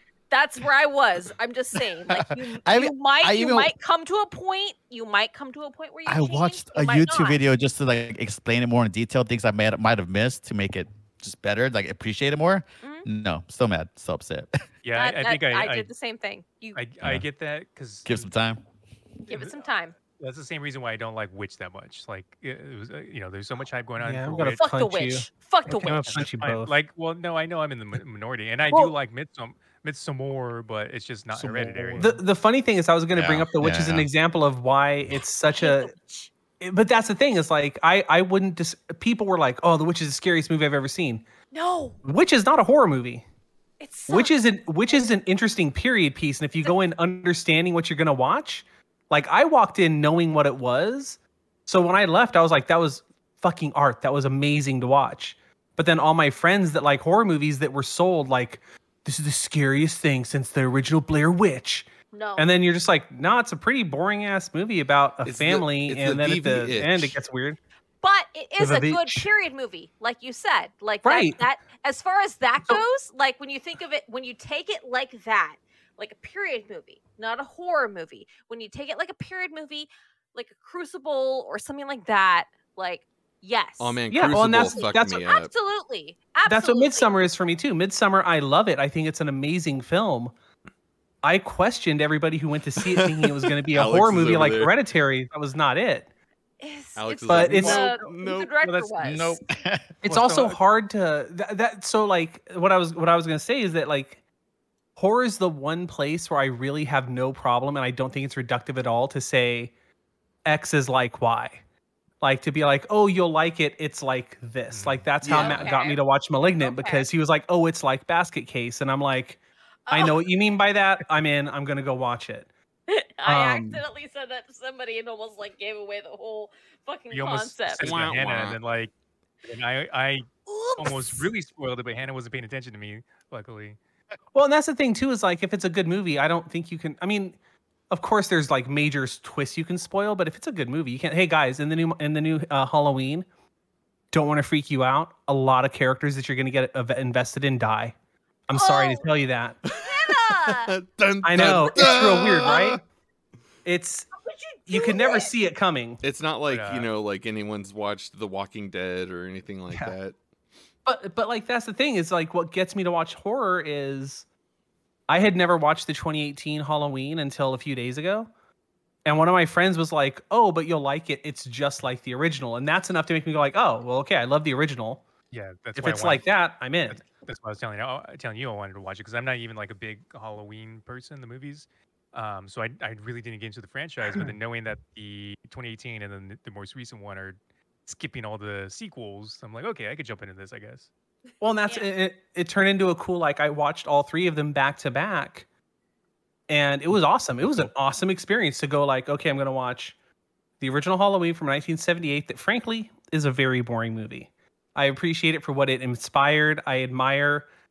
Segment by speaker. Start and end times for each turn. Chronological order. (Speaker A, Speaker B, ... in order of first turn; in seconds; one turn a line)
Speaker A: 0.3-7.4
Speaker B: 2.1-3.7
Speaker B: 6.0-14.5
Speaker A: 12.8-13.1
Speaker C: 14.8-15.9
Speaker A: 14.9-16.8
Speaker C: 16.7-18.3
Speaker B: 18.0-18.6
Speaker A: 19.3-19.9
Speaker C: 19.3-19.6
Speaker C: 20.1-24.6
Speaker D: 24.0-26.7
Speaker A: 24.5-26.2
Speaker C: 25.7-32.2
Speaker D: 28.7-28.9
Speaker D: 31.3-35.9
Speaker B: 33.1-34.1
Speaker A: 35.5-36.3
Speaker D: 36.6-41.2
Speaker A: 41.5-42.0
Speaker D: 42.0-43.2
Speaker A: 43.8-44.3
Speaker D: 44.1-61.9
Speaker A: 62.1-62.5
Speaker D: 62.4-67.6
Speaker E: 65.2-67.2
Speaker A: 68.0-84.0
Speaker D: 68.6-69.3
Speaker D: 71.0-71.4
Speaker E: 83.8-85.5
Speaker D: 84.1-85.3
Speaker A: 84.6-87.1
Speaker D: 86.5-90.3
Speaker D: 91.2-96.1
Speaker E: 92.8-94.7
Speaker A: 96.6-99.4
Speaker E: 97.0-98.5
Speaker D: 97.3-97.9
Speaker C: 98.6-98.9
Speaker B: 99.0-99.9
Speaker D: 100.0-104.2
Speaker C: 100.0-100.6
Speaker D: 105.0-109.7
Speaker D: 110.4-111.6
Speaker D: 112.2-119.4
Speaker C: 114.7-115.1
Speaker E: 115.2-115.7
Speaker A: 115.3-116.0
Speaker A: 116.6-117.1
Speaker A: 119.9-120.2
Speaker D: 119.9-122.5
Speaker A: 122.9-128.0
Speaker D: 123.2-123.8
Speaker C: 127.1-128.9
Speaker E: 127.8-128.6
Speaker C: 129.4-130.3
Speaker A: 130.4-131.3
Speaker C: 130.8-133.8
Speaker D: 134.3-137.4
Speaker D: 137.9-143.2
Speaker D: 144.1-147.9
Speaker D: 148.5-149.6
Speaker A: 148.5-149.1
Speaker A: 149.7-150.7
Speaker E: 149.7-152.8
Speaker D: 151.2-152.8
Speaker A: 151.6-152.8
Speaker D: 153.6-154.1
Speaker A: 154.2-155.3
Speaker D: 154.7-156.0
Speaker E: 156.0-160.1
Speaker C: 156.5-156.9
Speaker D: 160.8-164.2
Speaker D: 165.1-168.3
Speaker D: 169.0-175.0
Speaker C: 175.3-176.2
Speaker D: 175.8-177.0
Speaker C: 176.9-190.9
Speaker D: 191.4-195.4
Speaker A: 191.6-191.9
Speaker D: 196.5-199.9
Speaker D: 200.6-207.4